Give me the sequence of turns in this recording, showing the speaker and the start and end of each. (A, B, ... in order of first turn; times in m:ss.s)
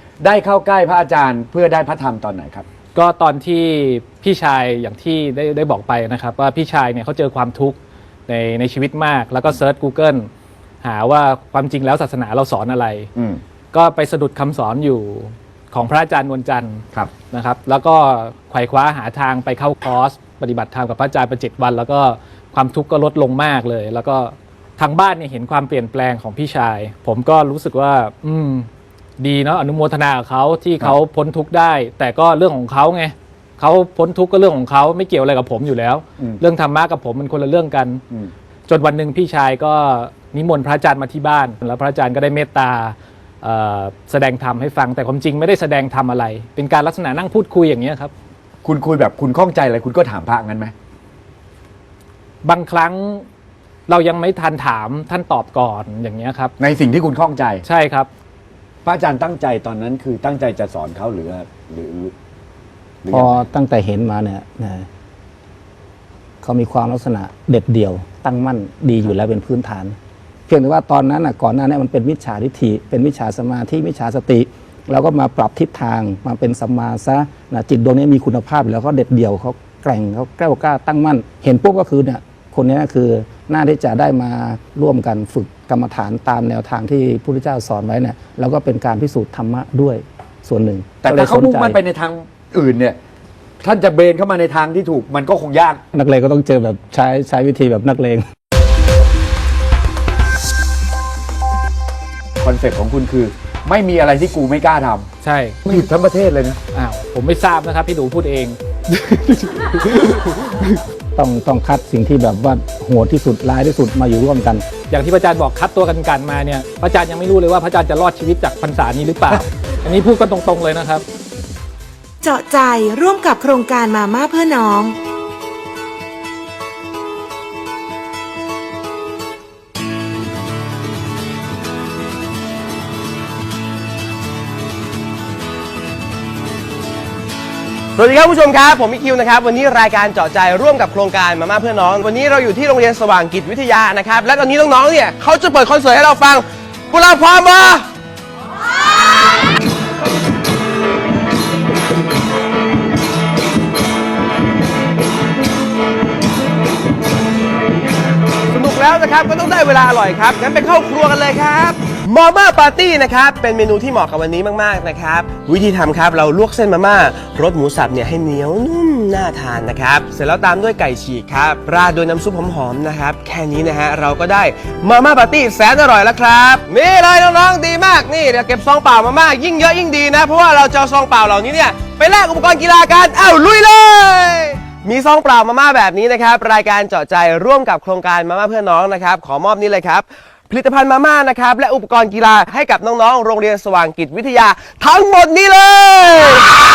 0:00.2-0:02.6 A
0:02.9-0:10.3 B
0:10.8-0:13.1 B
0:13.1-0:13.4 A
0:13.7-0:28.7 B
0:29.2-0:38.0 B
0:38.7-0:48.1 B
0:48.6-0:50.7 A
0:52.4-0:53.2 B
0:53.9-0:56.5 B
0:56.6-0:57.6 A
0:57.6-0:58.1 B
0:58.8-1:02.1 A
1:03.0-1:03.4 A
1:03.1-1:04.9 C
1:06.4-1:10.0 C
1:10.5-1:31.8 C
1:31.0-1:33.0 A
1:33.6-1:35.8 A
1:35.9-1:38.2 C
1:42.4-1:45.1 A
1:45.2-1:45.6 B
1:45.6-1:46.6 A
1:46.7-1:50.8 B
1:51.2-1:54.6 C
1:54.9-2:01.0 B
2:02.2-2:05.0 D
2:18.0-2:27.9 E
2:38.5-3:16.4 E